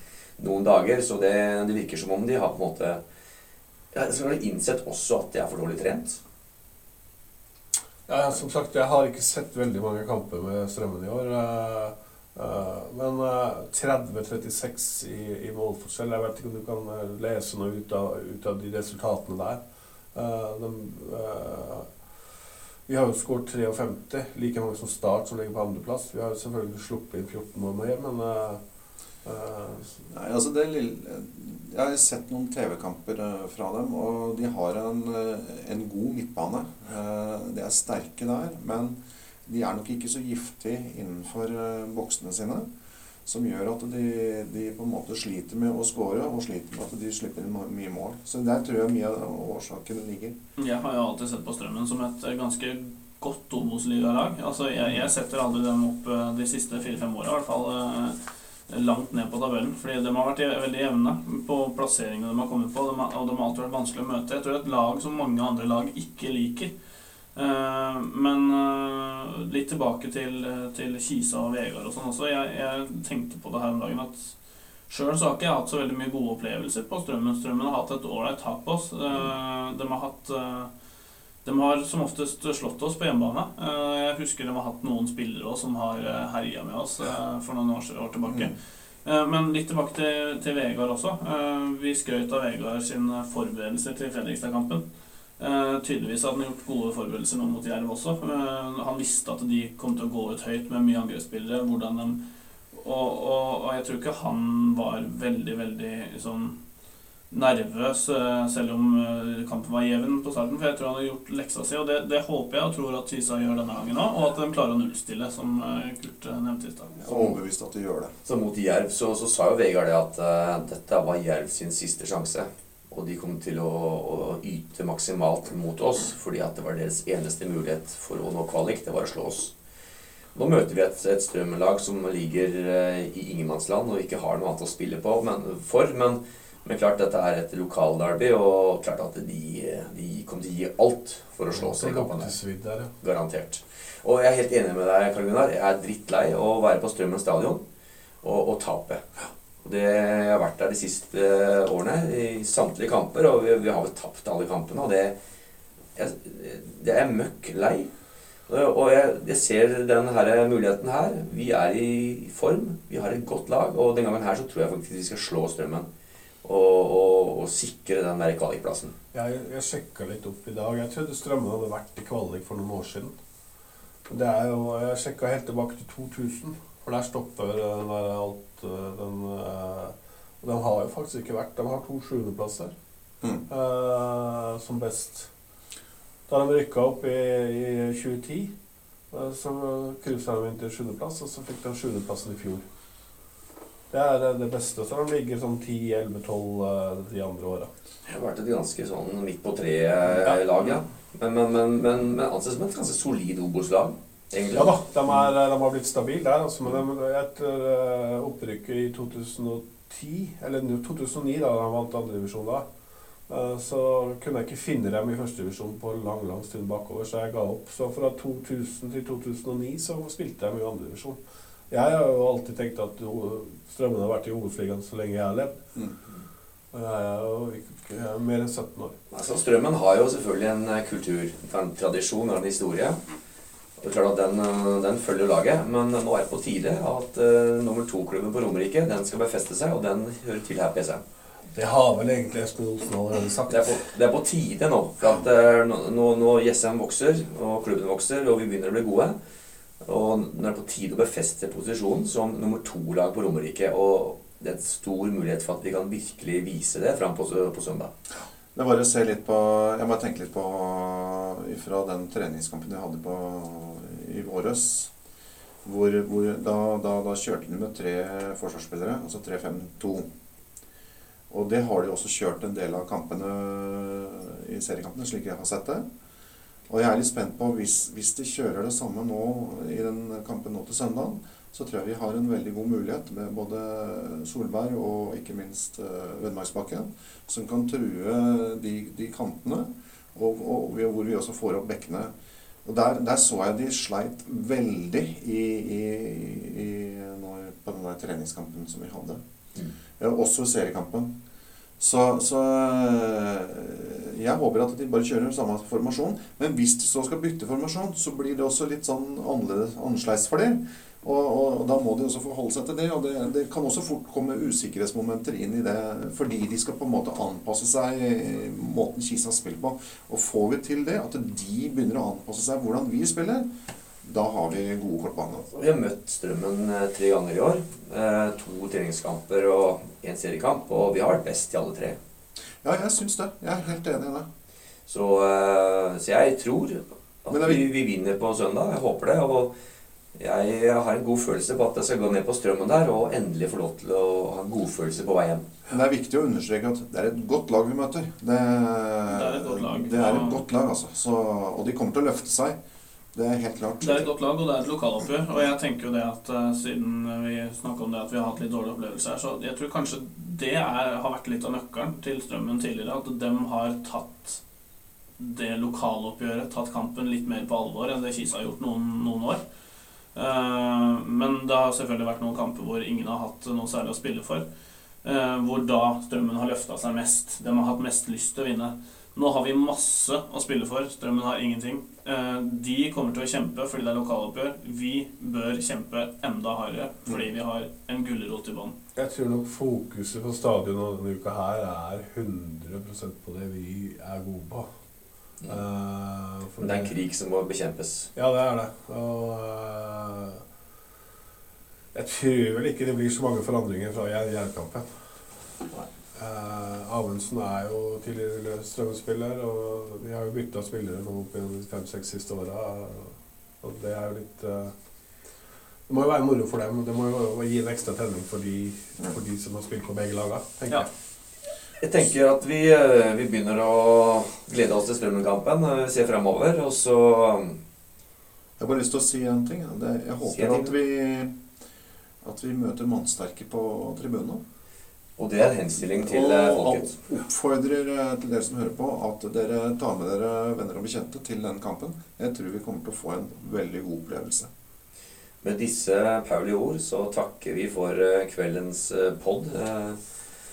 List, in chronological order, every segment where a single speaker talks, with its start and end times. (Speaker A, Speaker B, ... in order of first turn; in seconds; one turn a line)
Speaker A: 0.4-3.0
Speaker A: 3.9-6.2
Speaker B: 8.1-19.6
Speaker B: 20.1-21.9
Speaker B: 22.9-28.6
Speaker B: 29.2-30.0
Speaker C: 30.1-42.7
Speaker C: 43.2-50.4
Speaker D: 50.6-58.2
Speaker D: 58.7-66.7
Speaker D: 67.3-74.3
Speaker D: 74.9-80.7
Speaker D: 81.4-88.5
Speaker C: 88.3-88.5
Speaker D: 89.0-94.8
Speaker D: 95.4-102.2
Speaker D: 102.7-106.5
Speaker D: 107.3-117.0
Speaker C: 117.0-118.1
Speaker A: 118.2-129.5
Speaker A: 130.3-142.4
Speaker B: 141.5-142.9
Speaker A: 143.0-147.6
Speaker A: 148.2-149.0
Speaker A: 149.6-155.2
Speaker A: 155.9-157.9
Speaker A: 158.5-165.9
Speaker A: 166.4-168.9
Speaker B: 169.1-173.1
Speaker B: 174.1-182.7
Speaker B: 183.5-185.3
Speaker B: 186.3-188.5
Speaker B: 189.1-192.6
Speaker B: 193.9-197.7
Speaker A: 198.1-204.7
Speaker B: 204.5-212.7
Speaker B: 213.3-221.2
Speaker B: 221.7-225.6
Speaker B: 226.7-228.9
Speaker A: 229.1-233.0
Speaker A: 233.8-241.0
Speaker B: 241.5-243.8
Speaker A: 243.5-249.2
Speaker A: 249.8-257.9
Speaker C: 258.5-264.9
Speaker C: 265.6-270.1
Speaker C: 271.3-275.8
Speaker C: 276.7-292.1
Speaker C: 292.6-299.2
Speaker C: 300.0-301.1
Speaker C: 301.8-323.5
Speaker C: 324.0-325.5
Speaker A: 325.5-332.0
Speaker C: 332.6-334.3
Speaker A: 334.9-339.5
Speaker C: 337.3-337.6
Speaker A: 340.1-345.4
Speaker C: 345.7-352.6
Speaker D: 349.1-350.4
Speaker C: 353.1-354.1
Speaker D: 353.8-364.4
Speaker D: 365.2-369.4
Speaker D: 370.1-374.4
Speaker D: 375.0-388.7
Speaker B: 388.9-394.7
Speaker B: 395.5-396.9
Speaker A: 396.6-398.1
Speaker B: 398.1-400.4
Speaker B: 401.9-404.9
Speaker B: 406.1-414.7
Speaker B: 415.9-420.9
Speaker A: 421.8-427.6
Speaker C: 428.6-431.4
Speaker A: 430.3-430.7
Speaker C: 432.2-434.4
Speaker A: 435.2-437.0
Speaker C: 436.0-444.5
Speaker A: 445.4-450.0